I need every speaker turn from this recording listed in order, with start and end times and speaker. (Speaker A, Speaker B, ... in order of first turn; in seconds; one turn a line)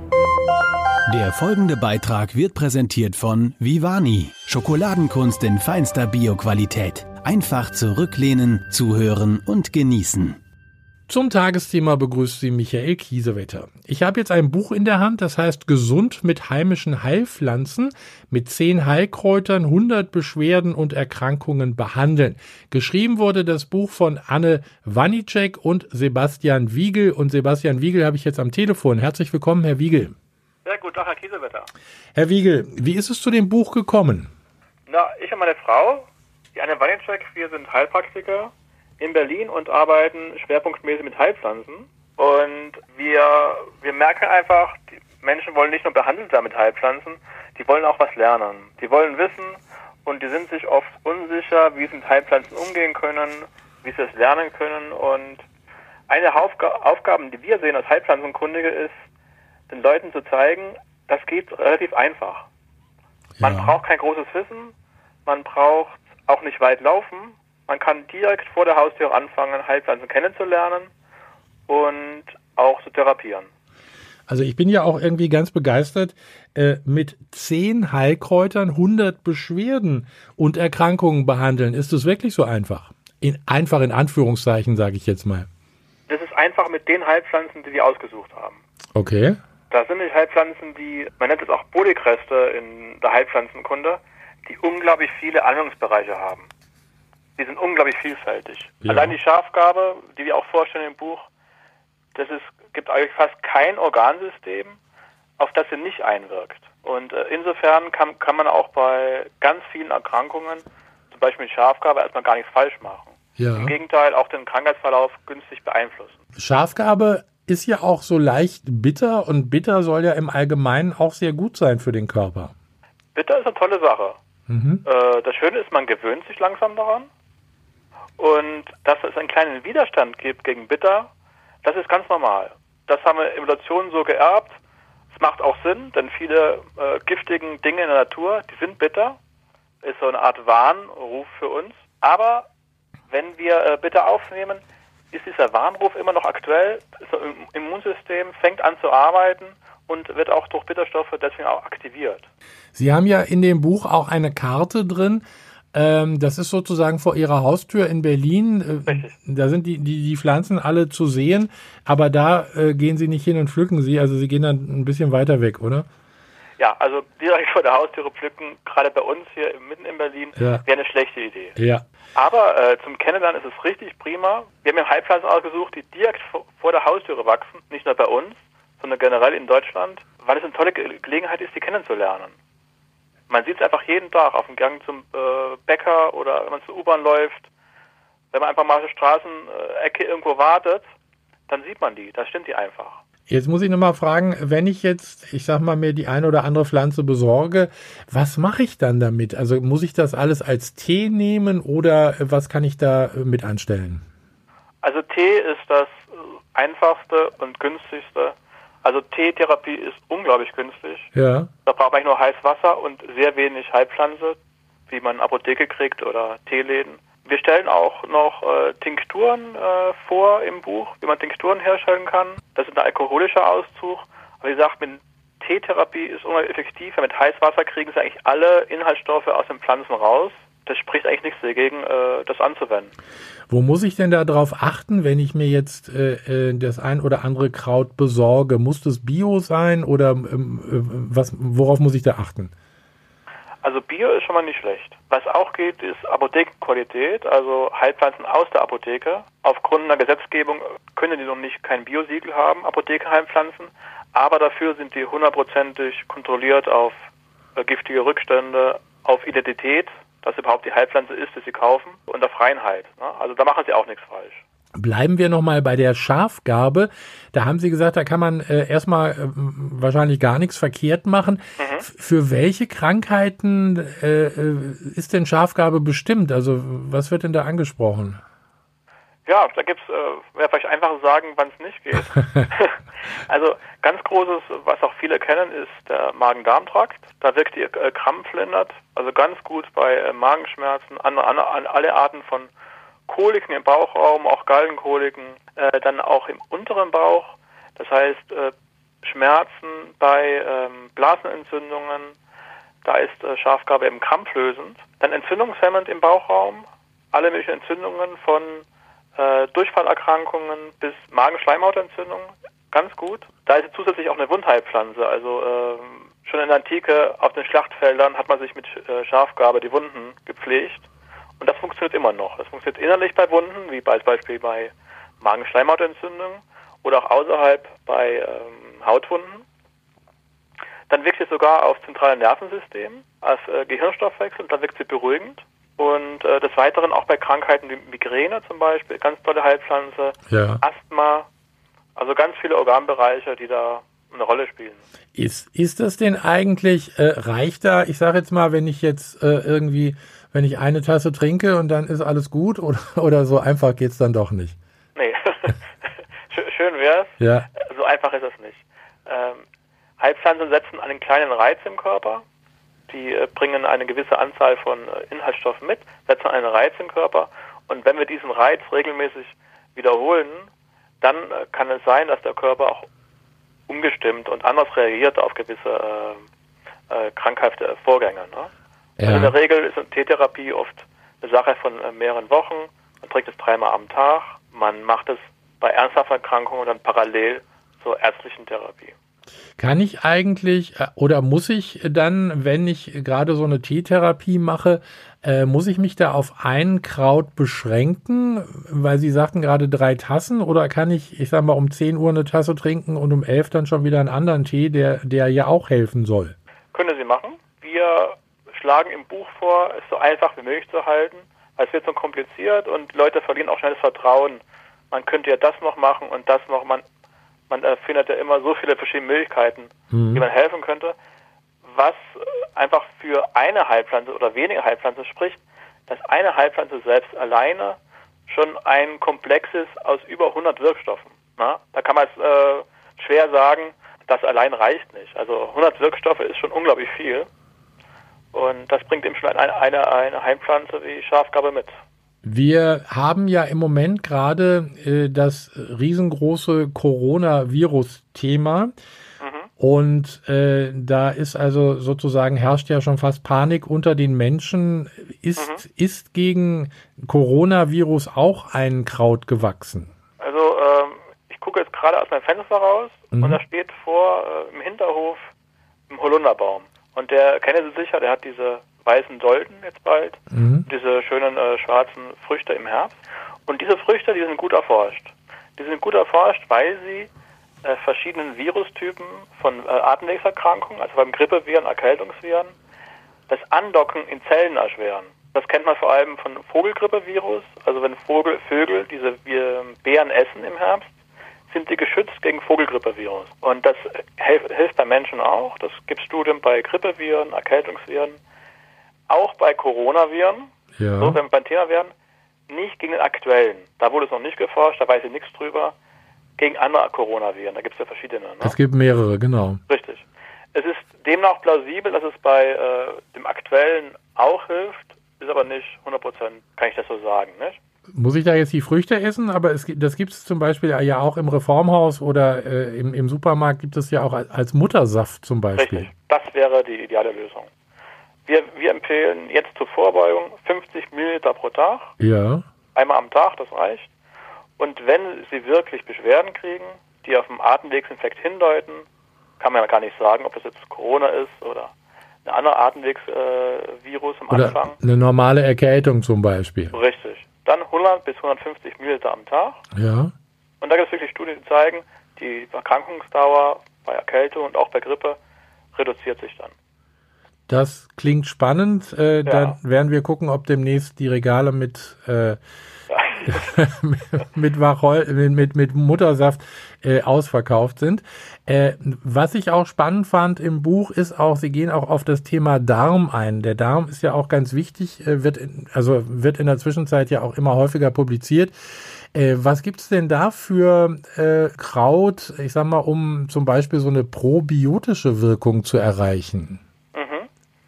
Speaker A: 1.1-10.4
Speaker B: 11.1-30.1
Speaker C: 30.6-31.7
Speaker B: 32.1-34.3
Speaker C: 34.9-55.5
Speaker C: 56.1-59.0
Speaker C: 59.7-62.5
Speaker B: 63.4-63.8
Speaker C: 63.4-64.7
Speaker C: 65.2-70.9
Speaker C: 71.7-73.5
Speaker B: 74.3-85.5
Speaker C: 86.1-88.6
Speaker B: 89.0-89.4
Speaker C: 89.7-96.5
Speaker C: 97.4-101.3
Speaker B: 98.8-99.2
Speaker C: 102.1-104.8
Speaker C: 105.4-116.2
Speaker B: 113.4-113.8
Speaker B: 116.4-122.5
Speaker C: 123.2-124.2
Speaker B: 124.5-124.8
Speaker C: 124.8-127.1
Speaker C: 128.2-131.1
Speaker C: 131.6-134.6
Speaker C: 135.1-139.2
Speaker C: 139.8-142.5
Speaker C: 143.1-152.3
Speaker B: 152.8-165.9
Speaker C: 158.9-159.1
Speaker C: 166.6-171.6
Speaker B: 170.4-170.6
Speaker B: 171.6-171.8
Speaker C: 172.2-182.3
Speaker C: 183.3-187.5
Speaker C: 188.3-190.9
Speaker C: 191.5-193.0
Speaker B: 193.3-204.0
Speaker C: 204.8-211.1
Speaker B: 211.2-211.5
Speaker C: 211.7-232.9
Speaker B: 233.5-242.5
Speaker C: 243.6-264.4
Speaker B: 264.8-278.2
Speaker C: 271.6-271.9
Speaker C: 279.3-292.5
Speaker C: 293.1-302.2
Speaker C: 302.8-308.6
Speaker C: 309.2-320.9
Speaker C: 321.4-329.4
Speaker C: 330.9-341.3
Speaker B: 340.3-340.6
Speaker C: 342.0-344.8
Speaker B: 345.1-354.6
Speaker C: 354.9-359.4
Speaker B: 357.2-357.5
Speaker C: 360.0-362.2
Speaker C: 362.9-370.5
Speaker C: 371.0-372.9
Speaker C: 373.7-376.3
Speaker C: 376.9-378.5
Speaker B: 379.0-379.4
Speaker C: 379.1-388.9
Speaker B: 389.6-406.4
Speaker C: 406.7-416.8
Speaker C: 417.5-420.9
Speaker B: 419.9-420.2
Speaker C: 421.6-437.3
Speaker C: 438.3-441.7
Speaker B: 442.2-448.7
Speaker C: 449.2-449.5
Speaker B: 449.6-459.9
Speaker C: 455.4-455.6
Speaker C: 460.2-465.3
Speaker B: 463.1-463.4
Speaker C: 465.9-477.1
Speaker B: 470.3-470.7
Speaker C: 477.6-482.6
Speaker C: 483.3-490.9
Speaker C: 491.5-498.2
Speaker C: 499.1-501.9
Speaker B: 500.8-501.2
Speaker C: 502.5-505.8
Speaker C: 506.4-508.6
Speaker B: 508.4-509.6
Speaker C: 509.7-517.6
Speaker B: 518.0-525.9
Speaker C: 525.6-527.5
Speaker C: 528.3-531.9
Speaker B: 532.0-532.4
Speaker C: 532.7-533.9
Speaker C: 534.6-538.9
Speaker C: 539.4-541.7
Speaker C: 542.2-544.8
Speaker B: 544.3-546.8
Speaker C: 546.7-549.6
Speaker B: 549.8-550.1
Speaker C: 550.6-555.2
Speaker C: 555.7-556.5
Speaker B: 557.5-562.4
Speaker C: 559.3-559.6
Speaker C: 562.9-563.5
Speaker B: 563.2-586.6
Speaker C: 586.9-587.3